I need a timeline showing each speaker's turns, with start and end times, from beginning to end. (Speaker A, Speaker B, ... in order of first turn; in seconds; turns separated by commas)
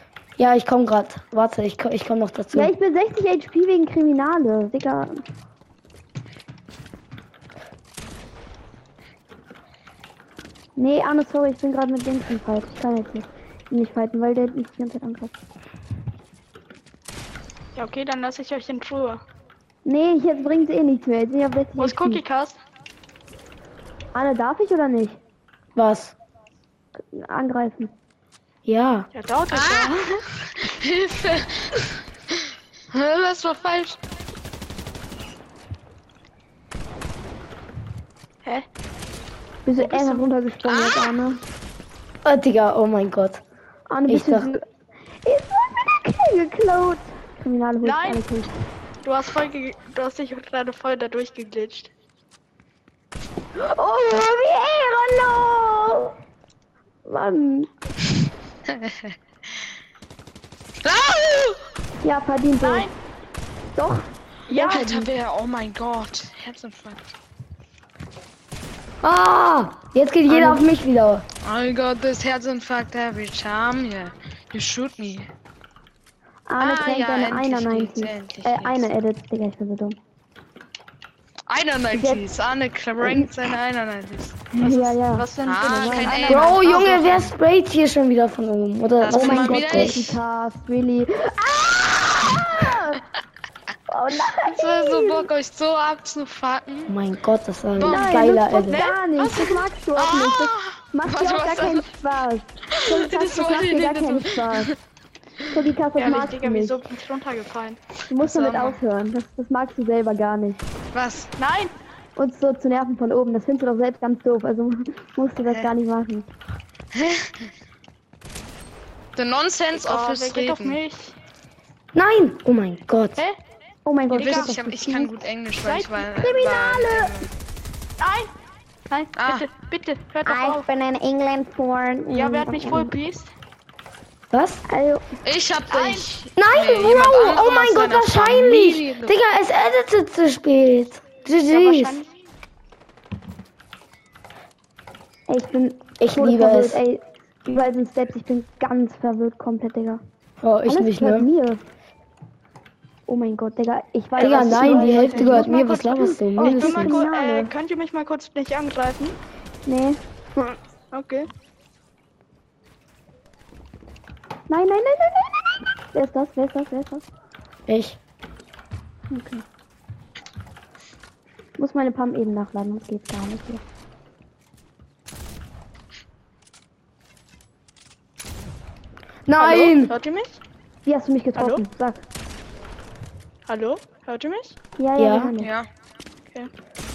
Speaker A: 0.4-2.7, Speaker B: 2.5-5.2, Speaker B: 10.8-15.3, Speaker C: 17.7-19.2, Speaker B: 19.8-22.2, Speaker C: 21.8-22.6, Speaker B: 24.1-25.2, Speaker A: 25.8-26.1, Speaker B: 27.0-27.9, Speaker A: 28.6-29.1, Speaker C: 29.1-30.2, Speaker D: 29.5-34.0, Speaker B: 39.6-41.4, Speaker C: 39.8-40.3, Speaker D: 40.6-41.0, Speaker A: 42.2-43.4, Speaker B: 43.9-44.6, Speaker A: 44.1-44.5, Speaker B: 45.2-48.5, Speaker C: 47.8-48.2, Speaker C: 49.0-51.9, Speaker B: 53.5-56.1, Speaker B: 57.0-57.7, Speaker D: 58.7-59.1, Speaker D: 60.8-61.6, Speaker B: 62.0-62.9, Speaker C: 62.6-62.9, Speaker B: 63.7-64.1, Speaker D: 64.5-67.0, Speaker C: 64.5-65.1, Speaker A: 69.0-71.2, Speaker B: 70.3-70.6, Speaker D: 71.4-75.3, Speaker B: 76.5-80.0, Speaker D: 76.6-78.9, Speaker D: 81.5-84.5, Speaker B: 81.9-82.2, Speaker B: 83.0-83.3, Speaker B: 84.5-86.3, Speaker C: 84.6-87.2, Speaker D: 85.4-87.3, Speaker A: 86.3-90.0, Speaker D: 89.0-90.2, Speaker B: 89.1-93.0, Speaker B: 93.9-95.3, Speaker D: 94.3-96.9, Speaker A: 96.9-98.8, Speaker D: 97.8-98.2, Speaker B: 97.8-104.7, Speaker C: 98.7-99.5, Speaker D: 99.2-101.9, Speaker D: 102.7-104.7, Speaker B: 105.5-106.8, Speaker C: 106.0-107.8, Speaker B: 108.1-110.6, Speaker D: 108.2-108.8, Speaker D: 110.9-111.3, Speaker C: 111.4-111.7, Speaker B: 112.2-116.3, Speaker D: 116.9-117.5, Speaker D: 119.2-120.8, Speaker C: 119.7-121.2, Speaker A: 121.9-123.2, Speaker B: 123.8-125.3, Speaker C: 124.1-124.5, Speaker D: 124.1-127.3, Speaker C: 125.6-126.1, Speaker B: 126.2-127.2, Speaker C: 128.0-128.3, Speaker C: 128.9-130.7, Speaker D: 129.2-129.5, Speaker B: 130.2-132.9, Speaker C: 132.1-133.3, Speaker A: 134.3-134.6, Speaker B: 134.7-135.1, Speaker D: 135.2-139.1, Speaker C: 135.7-136.1, Speaker A: 136.3-142.0, Speaker C: 141.4-142.1, Speaker B: 145.3-150.0, Speaker A: 146.0-146.8, Speaker A: 150.4-151.3, Speaker B: 150.7-151.6, Speaker B: 153.1-157.5, Speaker C: 154.2-155.8, Speaker A: 154.2-157.1, Speaker C: 156.4-159.2, Speaker B: 159.7-160.5, Speaker C: 160.9-161.3, Speaker B: 164.5-167.0, Speaker A: 167.7-168.0, Speaker B: 169.1-169.4, Speaker B: 171.6-173.6, Speaker A: 179.3-179.9, Speaker C: 179.4-180.4, Speaker B: 180.8-182.0, Speaker C: 181.3-181.6, Speaker C: 183.5-184.6, Speaker B: 184.8-185.5, Speaker A: 185.0-185.3, Speaker D: 185.4-185.7